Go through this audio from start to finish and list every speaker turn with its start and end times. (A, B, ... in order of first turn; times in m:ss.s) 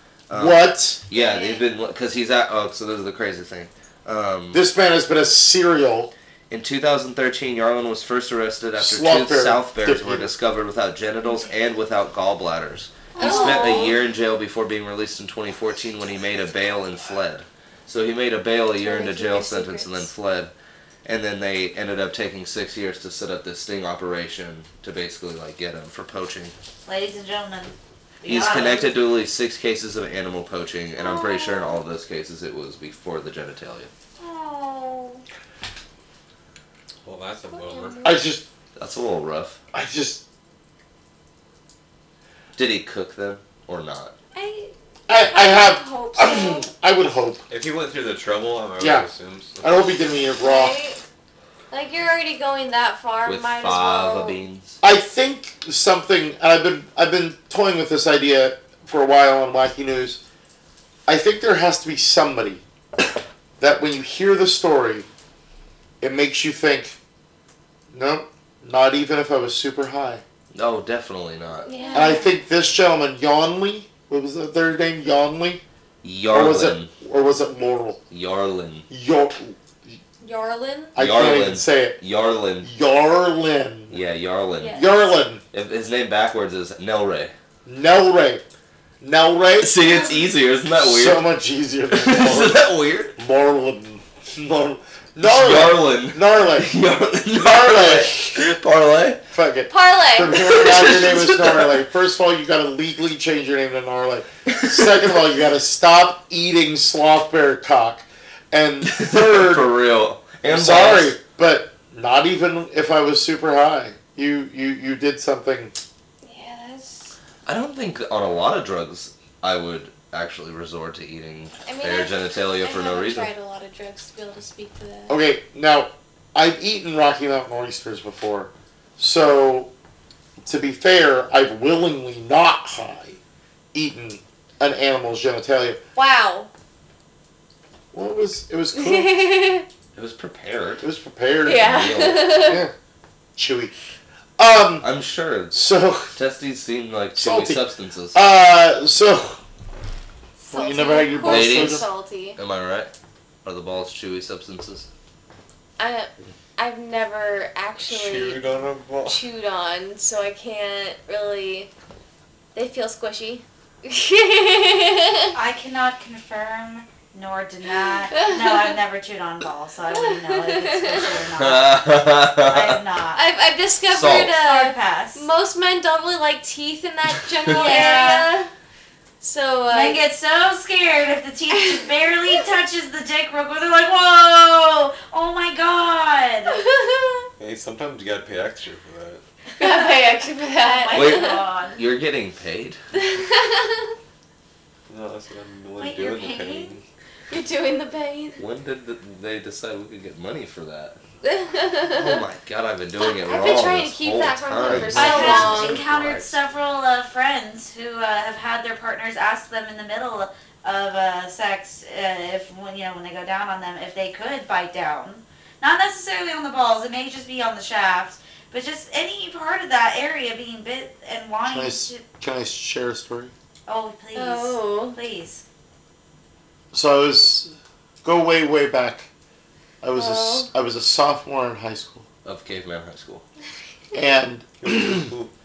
0:00.3-0:04.6 A
0:00.3-0:01.0 B
0:01.1-0:01.6 C
0:04.5-0:06.1 B
0:06.5-0:20.5 A
0:08.8-0:10.3 B
0:13.2-0:14.0 C
0:13.2-0:13.8 D
0:18.8-0:20.1 C
0:21.0-0:26.5 A
0:26.9-0:28.9 D
0:28.2-0:33.9 A
0:31.0-0:31.7 C
0:31.0-0:31.4 D
0:34.2-0:35.2 D
0:37.0-0:38.0 E
0:37.5-0:38.3 C
0:38.0-0:38.4 B
0:38.8-0:39.6 A
0:39.7-0:40.2 B
0:42.6-0:44.1 A
0:44.4-0:46.7 C
0:45.1-0:47.4 B
0:47.5-0:49.9 E
0:48.8-0:49.1 B
0:49.6-0:50.8 B
0:50.4-0:51.0 C
0:51.7-0:54.4 C
0:53.2-0:54.8 A
0:54.8-1:00.2 B
1:01.1-1:02.6 B
1:03.6-1:05.1 B
1:06.0-1:07.0 B
1:07.9-1:10.2 B
1:10.5-1:11.7 A
1:11.6-1:12.3 C
1:11.8-1:12.3 D
1:11.9-1:15.6 B
1:16.0-1:16.9 A
1:16.3-1:18.0 B
1:18.1-1:18.9 A
1:18.9-1:20.0 B
1:20.2-1:20.9 C
1:21.0-1:22.0 B
1:21.0-1:22.7 A
1:22.6-1:24.0 B
1:23.9-1:24.8 A
1:24.6-1:24.9 C
1:24.7-1:25.4 B
1:25.5-1:27.3 A
1:27.6-1:28.4 B
1:29.0-1:29.8 B
1:29.6-1:31.3 A
1:30.8-1:36.7 B
1:31.9-1:33.2 A
1:35.2-1:39.2 A
1:37.3-1:38.5 B
1:39.3-1:49.7 B
1:39.7-1:40.5 C
1:40.3-1:41.7 A
1:44.5-1:44.8 A
1:48.8-1:51.1 A
1:50.4-1:55.8 B
1:56.2-1:57.2 C
1:57.5-2:03.3 A
2:01.7-2:05.2 C
2:05.1-2:09.7 B
2:10.4-2:13.2 B
2:13.7-2:15.8 B
2:16.0-2:16.5 C
2:17.9-2:19.2 B
2:18.7-2:19.7 C
2:20.0-2:20.9 A
2:20.8-2:22.7 B
2:21.4-2:22.6 C
2:21.6-2:22.4 A
2:23.4-2:23.7 B
2:24.4-2:24.9 B
2:24.8-2:25.6 A
2:25.5-2:26.1 B
2:26.2-2:28.2 A
2:27.2-2:29.4 B
2:30.4-2:32.4 C
2:30.5-2:31.9 B
2:31.3-2:32.9 A
2:33.4-2:34.9 A
2:35.8-2:38.4 C
2:37.8-2:39.2 E
2:39.0-2:41.7 C
2:42.6-2:45.4 C
2:45.3-2:51.8 D
2:48.1-2:48.7 C
2:49.9-2:51.1 C
2:51.4-2:52.8 A
2:52.4-2:53.2 D
2:53.2-2:58.5 C
2:53.9-2:54.4 A
2:54.4-2:55.3 D
2:57.4-2:57.9 A
2:57.5-2:58.3 D
2:59.2-3:00.0 C
2:59.7-3:06.6 D
3:01.5-3:01.9 C
3:06.5-3:07.3 C
3:07.4-3:09.2 E
3:09.6-3:11.4 C
3:09.6-3:11.8 D
3:11.0-3:12.8 A
3:13.0-3:13.9 C
3:14.9-3:16.8 E
3:15.8-3:16.8 D
3:17.3-3:18.4 C
3:18.4-3:21.0 A
3:21.2-3:22.2 C
3:21.9-3:26.3 A
3:23.0-3:25.8 C
3:24.9-3:42.0 D
3:41.5-3:43.3 B
3:43.7-3:45.4 D
3:44.2-3:45.0 C
3:46.7-3:47.5 B
3:48.0-3:49.1 B
3:49.8-3:52.1 B
3:50.0-3:50.5 C
3:52.2-3:53.2 A
3:53.9-3:55.1 B
3:54.6-3:55.3 E